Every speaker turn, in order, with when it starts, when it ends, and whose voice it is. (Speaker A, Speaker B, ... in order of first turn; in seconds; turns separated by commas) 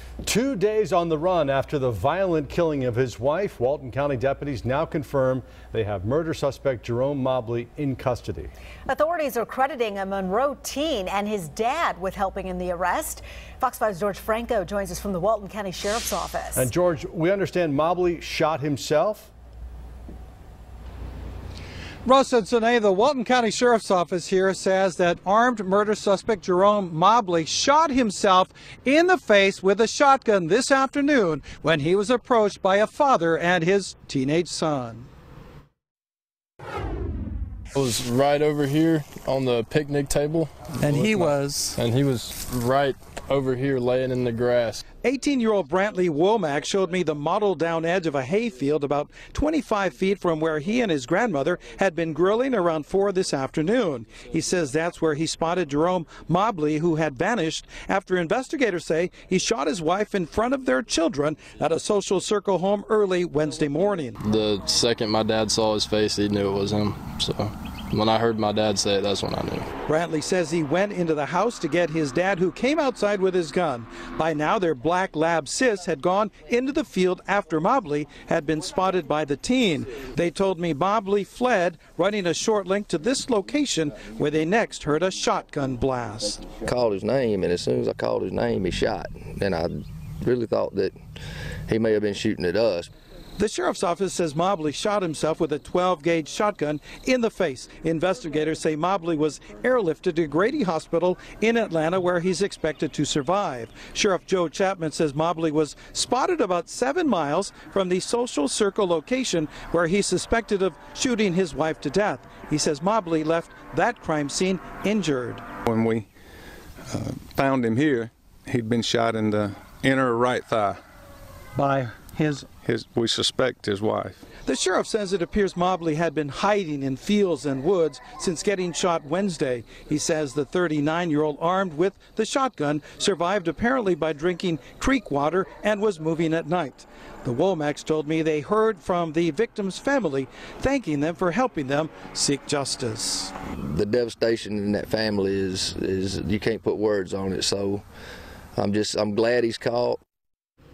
Speaker A: 0.2-8.5, Speaker B: 8.9-16.7, Speaker A: 16.6-19.3, Speaker C: 22.1-35.1, Speaker D: 37.7-44.8, Speaker C: 40.8-41.8, Speaker C: 45.0-64.2, Speaker D: 64.2-69.7, Speaker C: 69.9-86.5, Speaker E: 86.6-91.0, Speaker E: 91.7-92.9, Speaker C: 93.4-115.5, Speaker F: 115.7-116.1, Speaker F: 116.9-120.8, Speaker C: 121.6-122.5, Speaker F: 122.6-124.2, Speaker C: 124.4-143.3, Speaker E: 143.5-147.8, Speaker E: 148.6-150.0